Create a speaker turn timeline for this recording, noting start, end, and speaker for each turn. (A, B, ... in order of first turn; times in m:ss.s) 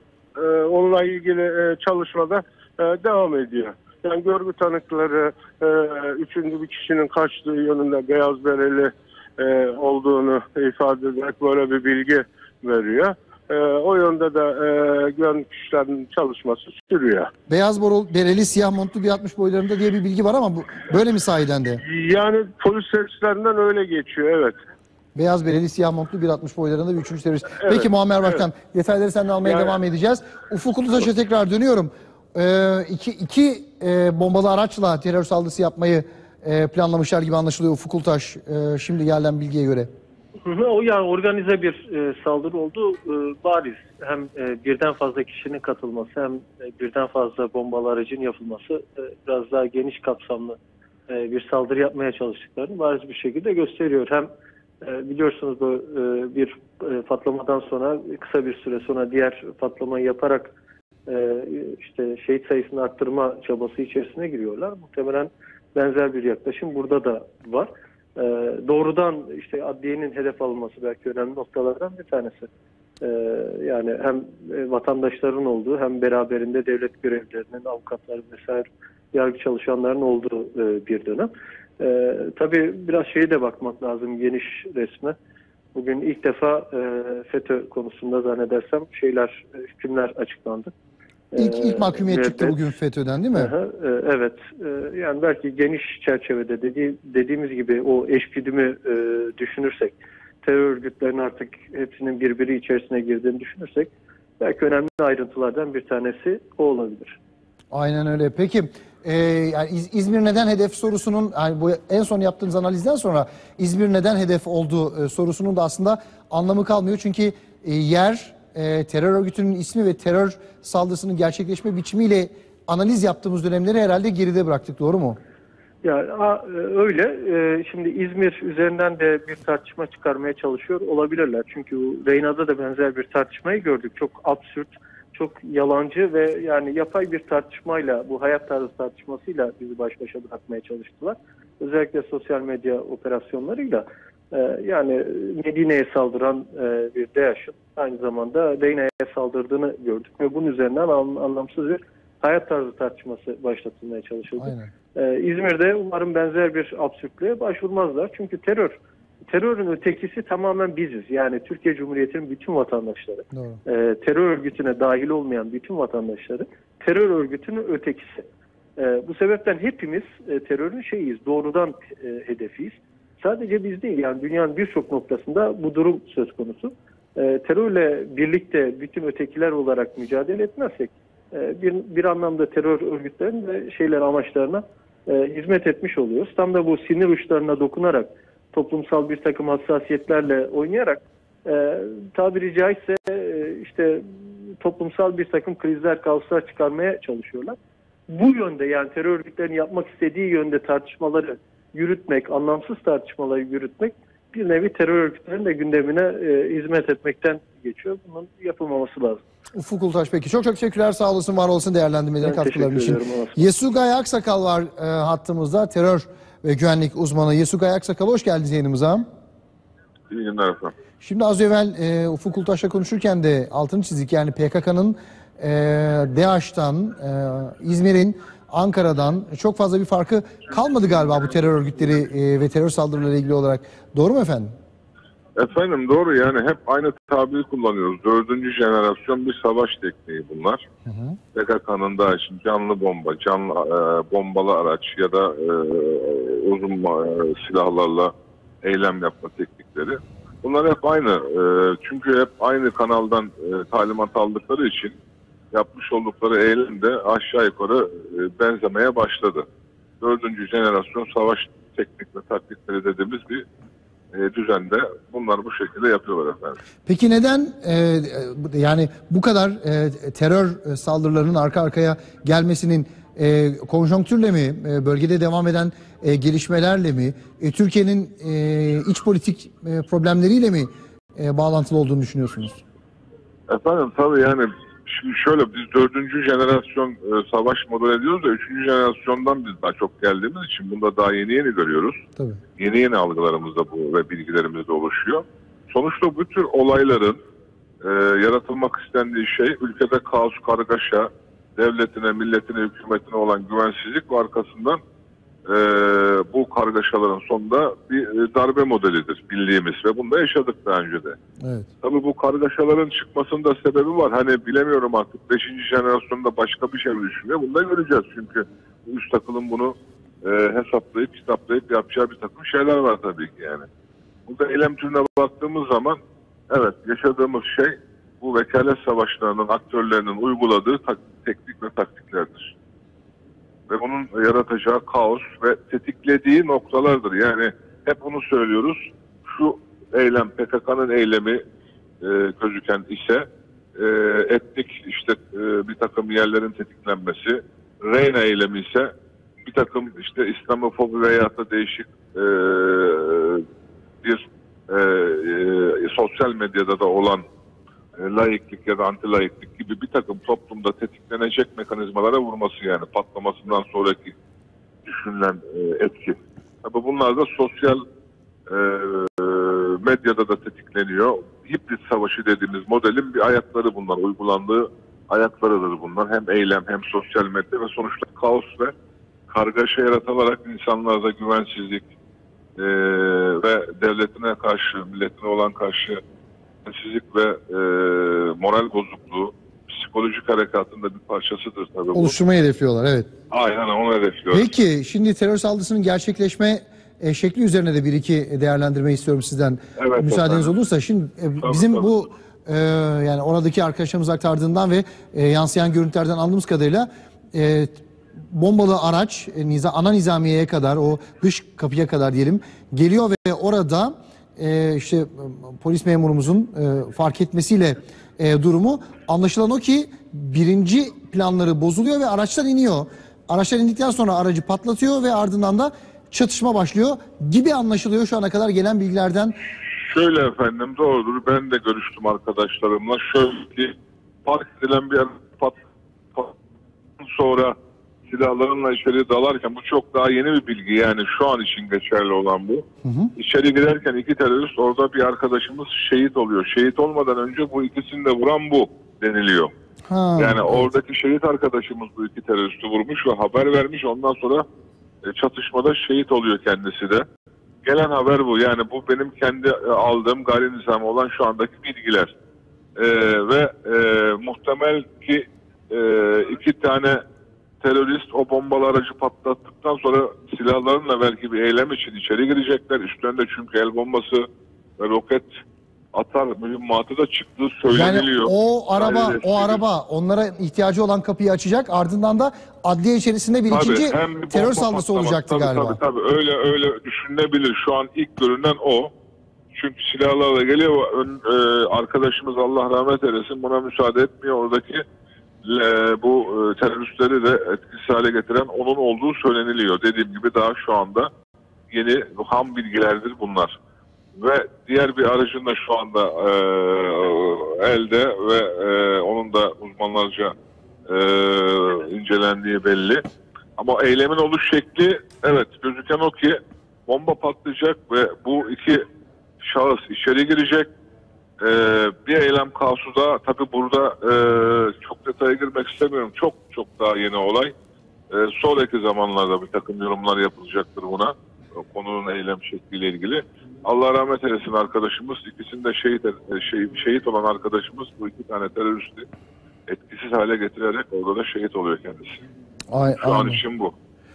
0:00.4-0:17.3 A
0:17.5-0:21.8 B
0:21.8-0:24.6 A
0:25.1-0:39.9 B
0:27.6-0:28.4 A
0:29.4-0:29.7 A
0:40.4-0:50.6 C
0:51.1-0:54.3 C
0:54.8-1:00.5 C
1:01.1-1:12.5 C
1:13.0-1:25.2 C
1:25.7-1:30.7 C
1:31.3-1:32.5 C
1:31.4-1:33.5 B
1:33.4-1:47.2 C
1:47.7-2:05.2 B
2:05.8-3:17.6 C
2:34.4-2:34.7 B
2:43.3-2:43.6 B
3:18.1-3:29.2 C
3:29.5-3:39.1 B
3:32.2-3:33.4 C
3:40.1-3:40.7 D
3:41.0-3:54.5 B
3:55.4-4:00.6 D
4:00.8-4:01.2 B
4:01.3-4:15.0 D
4:15.5-4:19.4 D
4:20.0-4:23.4 D
4:24.1-4:26.6 D
4:26.8-4:42.6 B
4:43.5-4:52.0 D
4:52.6-4:57.2 D
4:57.8-5:04.8 D
5:05.5-5:11.2 D
5:11.4-5:11.7 B
5:11.8-5:23.6 D
5:24.3-5:26.0 D
5:26.5-5:32.5 D
5:33.7-5:41.4 D
5:42.0-5:43.2 D
5:43.8-5:48.9 D
5:49.4-5:53.4 D
5:54.0-5:57.2 D
5:58.0-6:04.1 D
6:04.8-6:07.8 D
6:08.5-6:18.7 D
6:19.3-6:21.8 D
6:22.6-6:26.0 D
6:26.6-6:32.2 D
6:31.9-6:33.1 B
6:33.3-6:34.5 D
6:34.3-6:47.8 B
6:39.8-6:40.5 D
6:41.4-6:41.9 D
6:48.3-7:09.4 B
7:09.8-7:15.5 D
7:17.0-7:17.5 D
7:18.1-7:22.6 D
7:22.8-7:23.1 B
7:23.2-7:29.5 D
7:29.9-7:30.7 B
7:30.2-7:34.4 D
7:35.0-7:37.0 D
7:37.6-7:42.1 D
7:42.8-7:47.0 D
7:47.6-7:54.2 D
7:54.8-7:55.3 D
7:55.9-7:59.6 D
7:57.7-8:05.8 B
8:03.5-8:08.9 D
8:09.5-8:14.8 D
8:15.4-8:21.1 D
8:21.7-8:23.5 D
8:24.2-8:30.3 D
8:30.9-8:33.0 D
8:33.6-8:38.8 D
8:39.4-8:40.7 D
8:41.4-8:47.5 D
8:48.1-8:59.1 D
8:59.7-9:02.2 D
9:02.7-9:03.4 B
9:03.0-9:03.7 D